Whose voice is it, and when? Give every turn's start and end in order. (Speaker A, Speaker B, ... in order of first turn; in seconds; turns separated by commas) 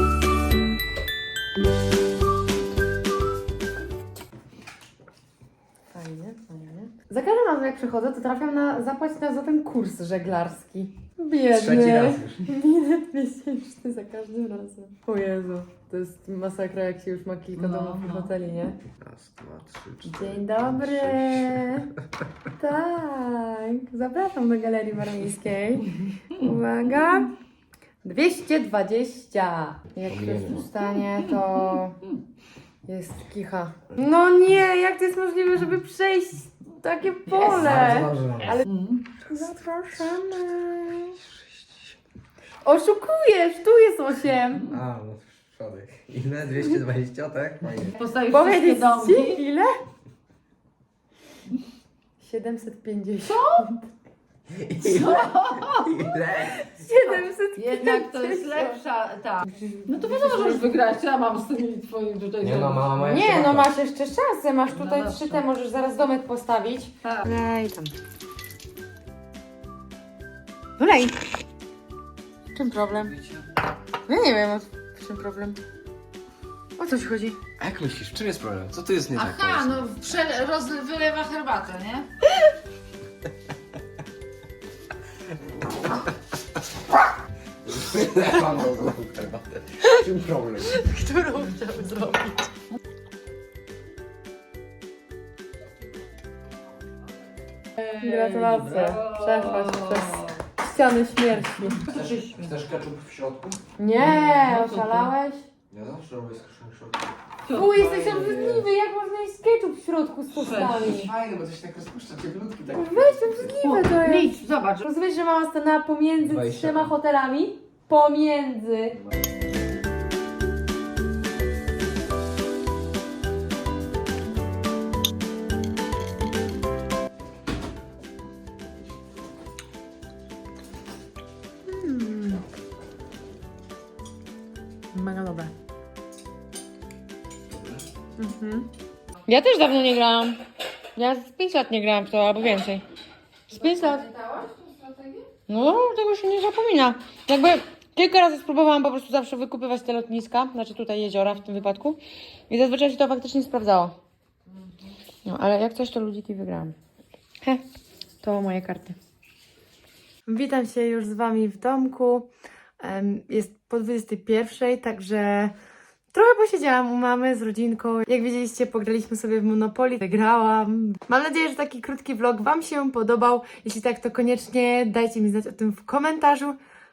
Speaker A: 5.9-18.8, Speaker B: 11.5-12.5, Speaker C: 17.6-18.4, Speaker B: 19.0-21.9, Speaker A: 20.1-21.9, Speaker A: 22.5-27.4, Speaker A: 28.0-32.0, Speaker B: 30.1-30.7, Speaker A: 32.9-38.7, Speaker C: 37.3-37.9, Speaker B: 37.4-38.6, Speaker C: 38.5-39.1, Speaker A: 39.2-41.2, Speaker A: 42.6-44.7, Speaker C: 44.5-44.8, Speaker B: 44.7-48.0, Speaker C: 47.9-49.4, Speaker A: 48.3-49.7, Speaker A: 52.2-53.9, Speaker C: 53.2-53.7, Speaker B: 54.5-56.7, Speaker C: 54.8-56.1, Speaker A: 56.3-58.8, Speaker C: 57.5-63.0, Speaker A: 59.4-60.7, Speaker B: 62.4-63.7, Speaker A: 63.0-67.9, Speaker C: 64.7-65.4, Speaker A: 70.8-71.2, Speaker A: 72.5-73.2, Speaker C: 72.9-73.6, Speaker A: 74.1-75.6, Speaker A: 76.8-77.4, Speaker B: 77.6-79.9, Speaker C: 79.1-82.1, Speaker B: 87.7-90.9, Speaker A: 89.8-90.1, Speaker A: 90.6-92.5, Speaker C: 97.8-100.4, Speaker A: 97.9-101.8, Speaker C: 101.7-102.5, Speaker B: 101.9-103.6, Speaker A: 103.8-105.5, Speaker C: 104.0-105.1, Speaker B: 105.7-108.7, Speaker C: 107.5-108.4, Speaker A: 107.5-111.1, Speaker C: 110.3-111.0, Speaker B: 110.8-113.6, Speaker A: 112.7-119.0, Speaker C: 113.6-114.9, Speaker B: 116.2-116.9, Speaker A: 131.7-132.4, Speaker A: 134.9-135.5, Speaker A: 138.2-138.7, Speaker A: 139.2-140.4, Speaker A: 140.9-142.8, Speaker A: 143.5-144.1, Speaker C: 143.5-145.3, Speaker A: 145.5-152.0, Speaker A: 152.5-154.0, Speaker C: 154.5-155.0, Speaker A: 155.2-156.8, Speaker A: 158.2-159.0, Speaker A: 160.3-165.6, Speaker A: 166.1-176.6